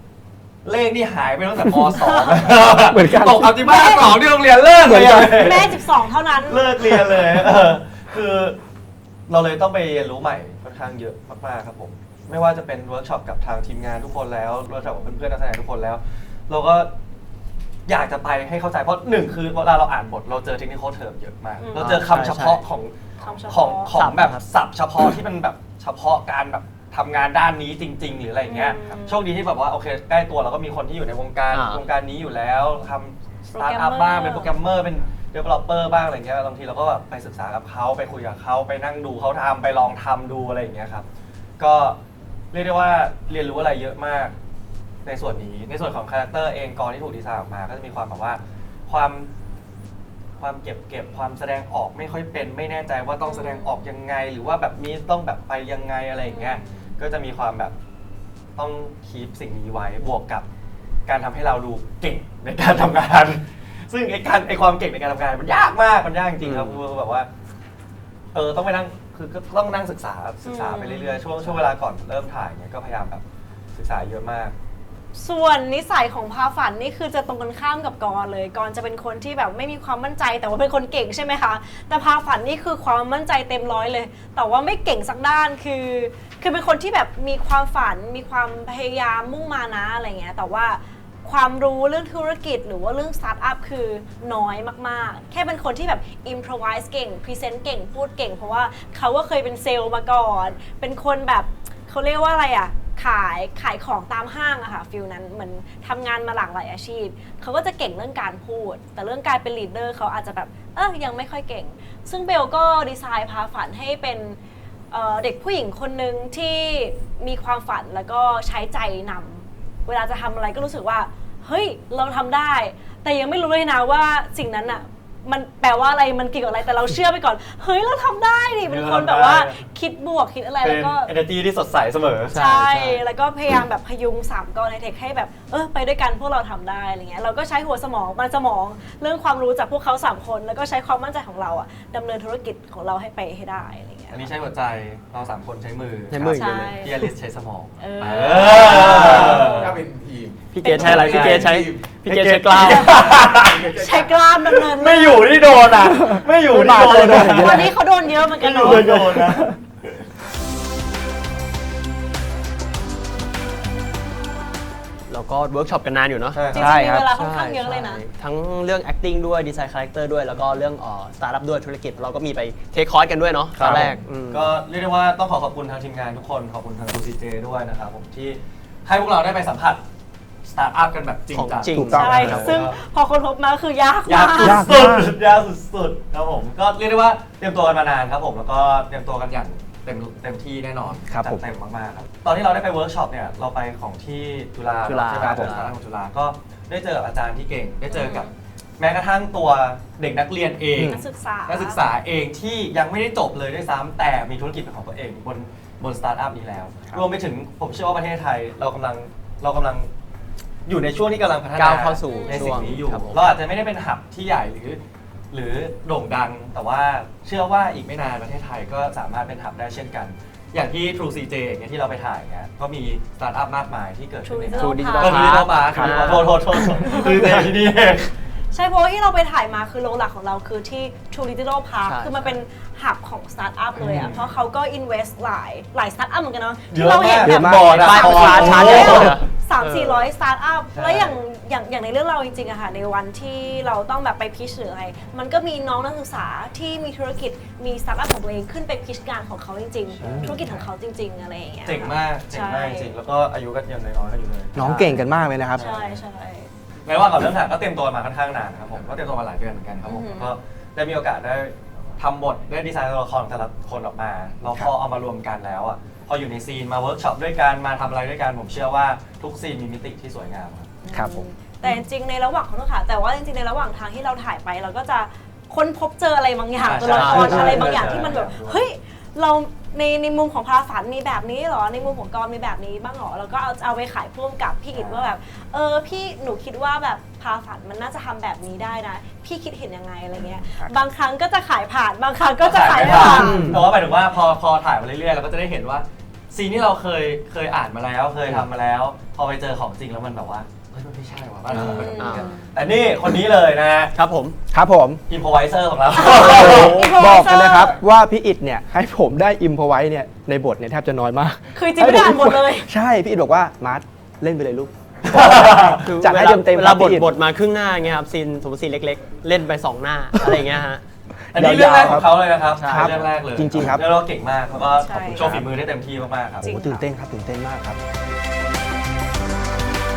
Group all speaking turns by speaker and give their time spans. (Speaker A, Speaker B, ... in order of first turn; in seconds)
Speaker A: 0.6-8.6, 9.3-16.9, 17.9-41.0, 41.6-42.0, 42.5-44.3, 45.0-49.3, 50.4-57.7, 58.5-60.5, 61.0-67.3, 68.3-73.2, 73.7-74.5, 128.7-129.6, 130.6-132.4, 144.1-149.8, 150.8-151.5, 152.0-153.7, 154.5-157.7, 158.3-160.0, 166.3-166.8, 173.5-179.8, 180.4-182.8, 184.1-198.3, 198.8-209.9, 210.7-228.1, 233.8-234.2, 236.7-239.2, 240.7-241.2, 249.9-250.6, 251.6-254.9, 255.5-256.0, 256.8-270.7, 276.6-278.6, 284.7-285.1, 292.4-303.9, 305.1-306.8, 315.1-315.9, 321.3-326.5
Speaker B: 1.9-2.5, 3.5-4.2, 5.0-6.7, 21.6-22.0, 23.2-24.0, 28.4-29.2, 33.5-34.5, 53.2-53.8, 56.3-56.9, 70.4-71.2, 75.1-114.4, 114.9-131.1, 132.3-144.3, 146.3-146.9, 147.8-149.7, 150.6-151.5, 152.6-155.4, 156.8-159.3, 166.5-168.0, 181.9-184.7, 197.9-198.3, 200.8-201.8, 212.1-212.8, 224.2-225.5, 226.8-227.2, 228.5-252.9, 255.5-256.5, 259.8-260.3, 270.8-293.5, 301.5-302.5, 305.9-307.8, 311.5-312.7, 324.7-325.4, 326.4-326.8
Speaker C: 2.7-3.6, 4.8-5.7, 155.7-157.7, 158.6-159.6, 166.5-167.1, 181.7-182.4, 184.4-185.1, 191.0-191.4, 200.7-201.0, 225.7-226.0, 237.2-238.7, 250.0-250.5, 254.5-255.6, 270.9-271.2, 290.1-290.7, 292.8-293.7, 304.5-305.0, 306.1-317.2, 321.3-323.9, 326.4-327.8
Speaker D: 21.7-22.6, 23.9-24.4, 31.5-31.8, 66.4-66.8, 71.4-71.7, 132.3-133.0, 146.1-147.1, 148.2-149.4, 150.5-153.0, 165.1-174.5, 181.3-182.5, 194.8-195.7, 211.5-213.4, 224.5-226.7, 231.8-232.4, 237.7-240.1, 276.8-278.0, 301.5-302.3, 303.9-304.4, 306.2-306.9, 315.8-320.8, 322.5-323.1
Speaker E: 148.7-150.4, 151.2-151.8, 153.5-154.1